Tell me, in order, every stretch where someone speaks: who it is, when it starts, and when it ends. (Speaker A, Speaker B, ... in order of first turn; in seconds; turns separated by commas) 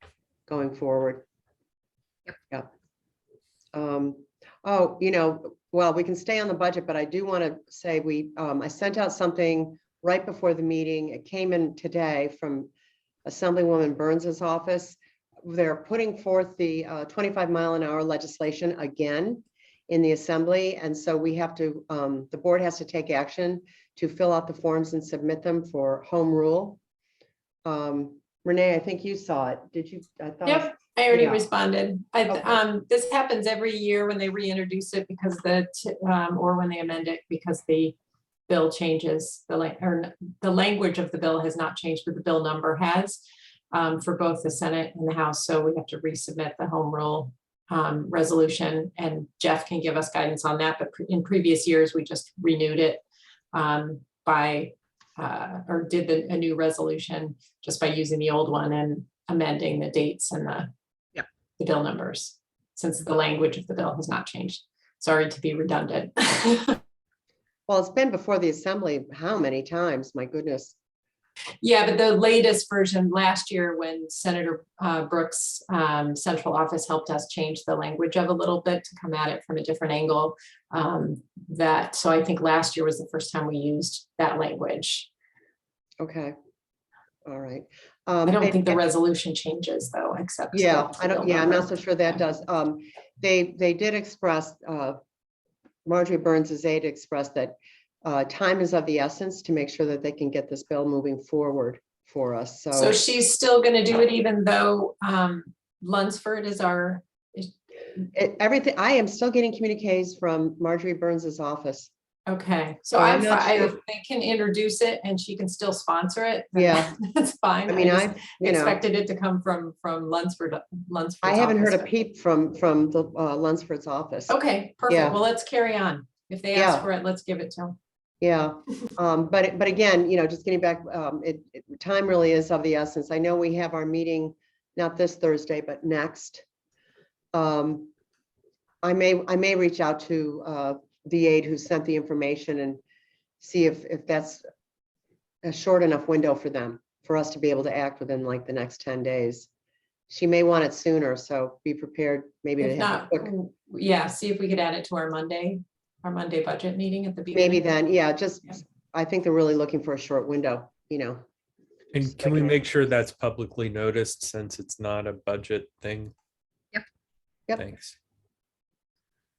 Speaker A: 0.5-1.2, Speaker A: 3.7-12.7, Speaker A: 13.2-26.8, Speaker A: 27.6-31.4, Speaker B: 30.4-37.9, Speaker B: 38.5-43.2, Speaker B: 43.7-60.7, Speaker B: 61.6-66.8, Speaker A: 67.7-70.7, Speaker B: 71.6-85.1, Speaker A: 86.0-86.3, Speaker A: 87.2-88.8, Speaker B: 88.2-91.7, Speaker A: 90.5-95.0, Speaker A: 95.8-103.0, Speaker B: 102.7-107.5, Speaker A: 108.1-111.9, Speaker B: 112.3-121.9, Speaker A: 112.9-113.8, Speaker A: 116.5-116.9, Speaker A: 117.7-118.8, Speaker A: 121.2-124.3, Speaker B: 124.3-127.8, Speaker A: 124.9-125.2, Speaker A: 126.5-126.9, Speaker A: 128.2-136.4, Speaker A: 137.3-137.9, Speaker A: 138.8-142.8, Speaker A: 143.4-144.4, Speaker A: 145.4-149.5, Speaker A: 150.1-153.3, Speaker B: 152.6-157.7, Speaker A: 157.3-161.2, Speaker C: 161.9-166.1, Speaker A: 162.2-162.6, Speaker C: 167.6-168.0